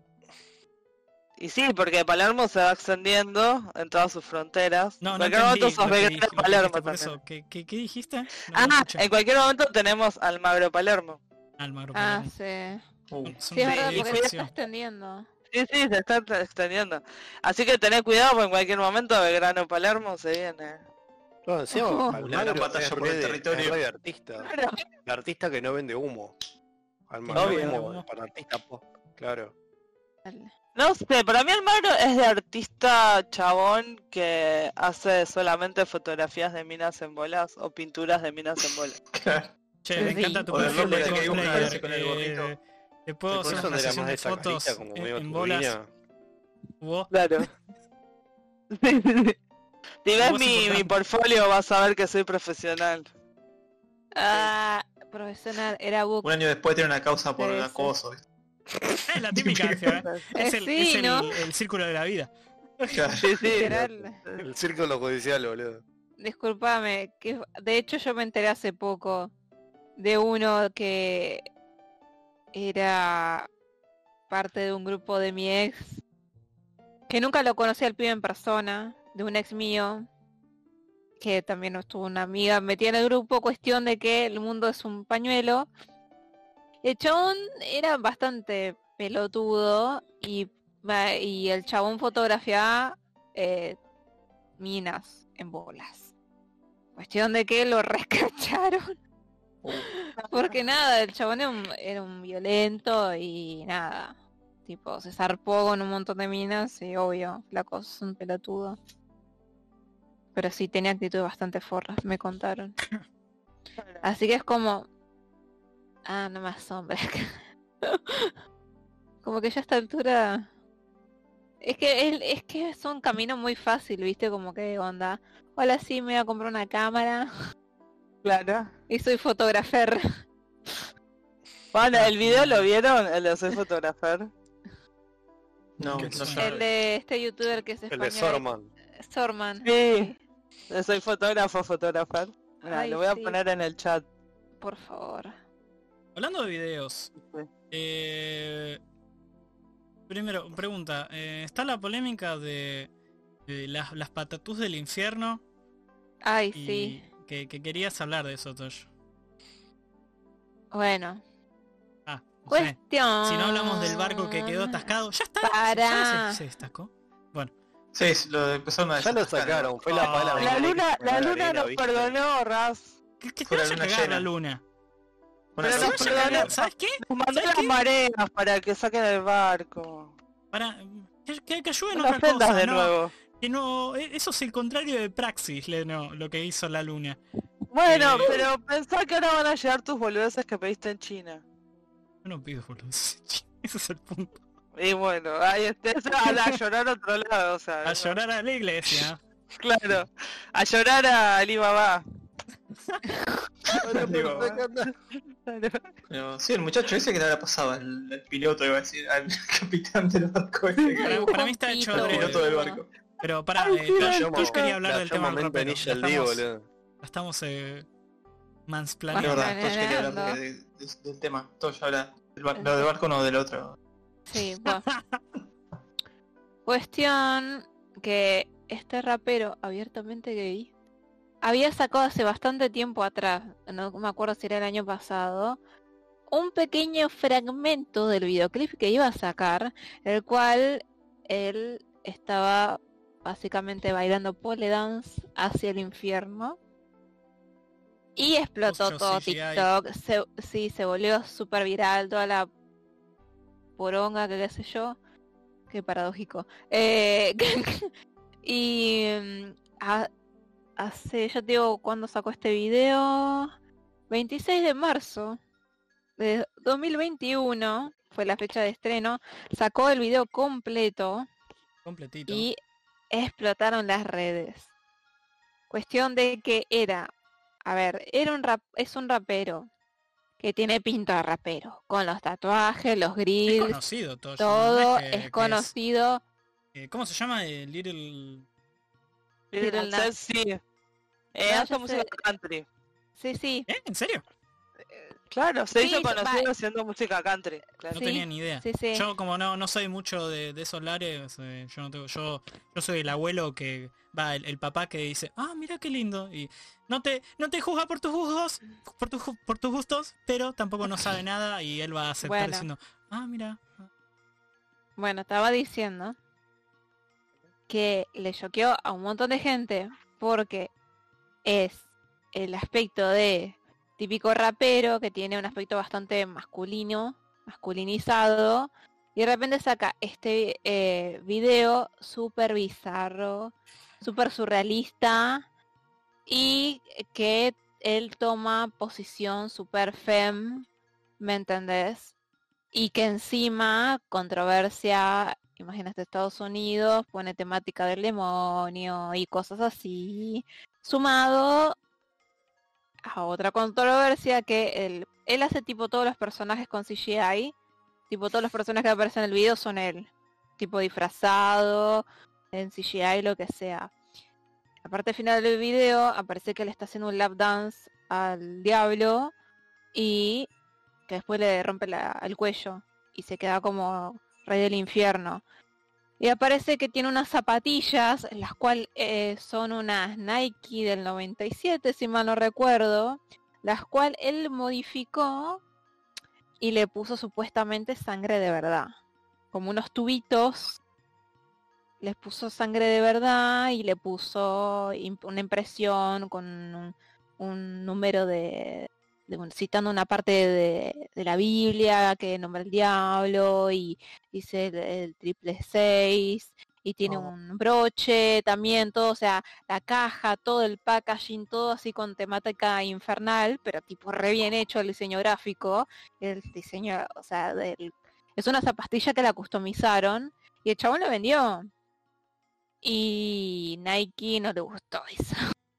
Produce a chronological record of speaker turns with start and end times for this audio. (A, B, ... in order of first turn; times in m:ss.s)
0:01.4-0:07.2 A
0:05.0-0:09.1 B
0:08.5-0:11.2 A
0:11.6-0:12.3 B
0:11.9-0:12.8 C
0:13.1-0:13.5 D
0:13.2-0:14.5 B
0:13.5-0:15.3 C
0:13.6-0:14.3 A
0:15.5-0:20.8 A
0:21.4-0:24.5 E
0:21.7-0:22.1 C
0:22.1-0:23.8 D
0:24.4-0:24.8 A
0:25.0-0:26.4 E
0:27.1-0:29.5 E
0:27.3-0:28.1 B
0:30.2-0:30.5 C
0:30.8-0:39.0 A
0:39.1-0:42.6 D
0:39.8-0:45.8 B
0:40.0-0:40.7 C
0:40.7-0:41.8 E
0:43.3-0:45.9 E
0:43.4-0:43.8 D
0:46.8-0:47.1 B
0:47.1-0:47.5 A
0:48.7-0:49.4 A
0:50.0-0:53.1 A
0:50.2-0:51.0 B
0:54.2-0:56.4 C
0:56.2-0:58.2 D
0:57.4-0:57.9 C
0:59.1-1:03.0 B
0:59.4-1:00.0 D
1:00.4-1:01.4 C
1:02.9-1:03.3 D
1:03.2-1:03.7 A
1:03.5-1:04.2 C
1:03.6-1:05.8 E
1:06.2-1:09.3 C
1:10.0-1:11.4 C
1:12.5-1:13.5 C
1:14.3-1:16.0 C
1:17.1-1:20.1 C
1:21.2-1:25.7 C
1:26.8-1:33.8 C
1:34.6-1:36.1 C
1:37.0-1:39.0 C
1:39.8-1:48.8 C
1:50.4-1:52.8 C
1:54.0-1:54.9 C
1:56.1-1:58.4 C
1:59.2-2:00.5 C
2:01.6-2:07.3 C
2:08.2-2:08.7 A
2:08.9-2:10.0 C
2:11.7-2:14.3 A
2:11.9-2:12.7 B
2:15.8-2:16.6 D
2:15.9-2:16.6 B
2:16.4-2:18.4 C
2:17.9-2:18.7 E
2:19.0-2:20.2 C
2:19.6-2:20.1 A
2:20.7-2:24.0 A
2:22.7-2:23.4 C
2:24.6-2:25.3 C
2:26.2-2:27.1 B
2:27.2-2:27.5 A
2:27.7-2:28.8 B
2:30.1-2:32.9 B
2:33.5-2:35.4 B
2:36.2-2:37.0 C
2:36.5-2:38.9 B
2:40.7-2:41.2 C
2:42.1-2:47.5 B
2:42.5-2:44.9 C
2:45.4-2:46.4 C
2:47.9-2:50.2 D
2:49.0-2:52.2 E
2:49.9-2:50.6 B
2:50.4-2:52.9 A
2:53.2-2:54.6 B
2:53.5-2:54.3 D
2:55.6-2:56.6 D
2:55.6-3:00.1 A
2:55.7-2:57.8 B
3:00.5-3:07.2 B
3:01.9-3:03.1 A
3:07.7-3:11.4 A
3:07.9-3:08.4 B
3:12.2-3:14.4 B
3:14.8-3:18.1 A
3:16.3-3:16.6 B
3:17.8-3:19.2 B
3:19.5-3:22.0 A
3:23.7-3:24.6 D
3:23.8-3:24.9 E
3:25.5-3:25.9 A
3:26.1-3:31.3 D
3:31.0-3:32.8 C
3:31.0-3:32.5 B
3:31.9-3:32.9 D
3:33.2-3:36.4 B
3:33.9-3:34.2 A
3:34.0-3:36.6 E
3:37.0-3:37.9 B
3:38.7-3:39.6 B
3:39.1-3:40.4 C
3:39.2-3:43.8 D
3:42.6-3:42.8 C
3:44.3-3:44.8 C
3:44.7-3:45.2 B
3:46.7-3:50.7 C
3:51.4-3:55.6 C
3:56.3-4:06.6 C
4:08.2-4:12.5 C
4:08.7-4:09.7 B
4:13.8-4:15.0 C
4:15.7-4:17.9 C
4:18.4-4:20.1 C
4:20.8-4:23.5 C
4:24.1-4:25.4 C
4:26.2-4:31.3 C
4:31.8-4:32.5 B
4:32.3-4:32.6 C
4:33.1-4:34.7 C
4:35.7-4:37.1 C
4:37.6-4:39.7 C
4:40.4-4:43.8 C
4:43.5-4:45.7 B
4:44.4-4:46.2 C
4:46.8-4:48.4 B
4:49.5-4:50.6 A
4:49.6-4:50.1 C
4:51.4-4:52.6 A
4:51.5-4:52.1 C
4:53.2-4:53.7 C
4:53.7-4:54.2 B
4:55.3-4:58.0 A
4:55.8-4:56.5 C
4:58.0-4:59.1 C
4:58.0-5:13.7 B
5:12.2-5:12.7 C
5:15.0-5:16.2 C
5:17.7-5:20.7 C
5:21.4-5:35.5 C
5:36.3-5:40.7 C
5:41.2-5:42.1 C
5:42.7-5:51.8 C
5:53.0-5:57.5 C
5:58.1-6:03.9 C
6:04.8-6:09.3 C
6:09.9-6:10.5 C
6:11.1-6:15.4 C
6:16.2-6:25.6 C
6:26.6-6:28.9 C
6:29.5-6:30.8 C
6:32.0-7:01.7 C
7:02.8-7:05.4 C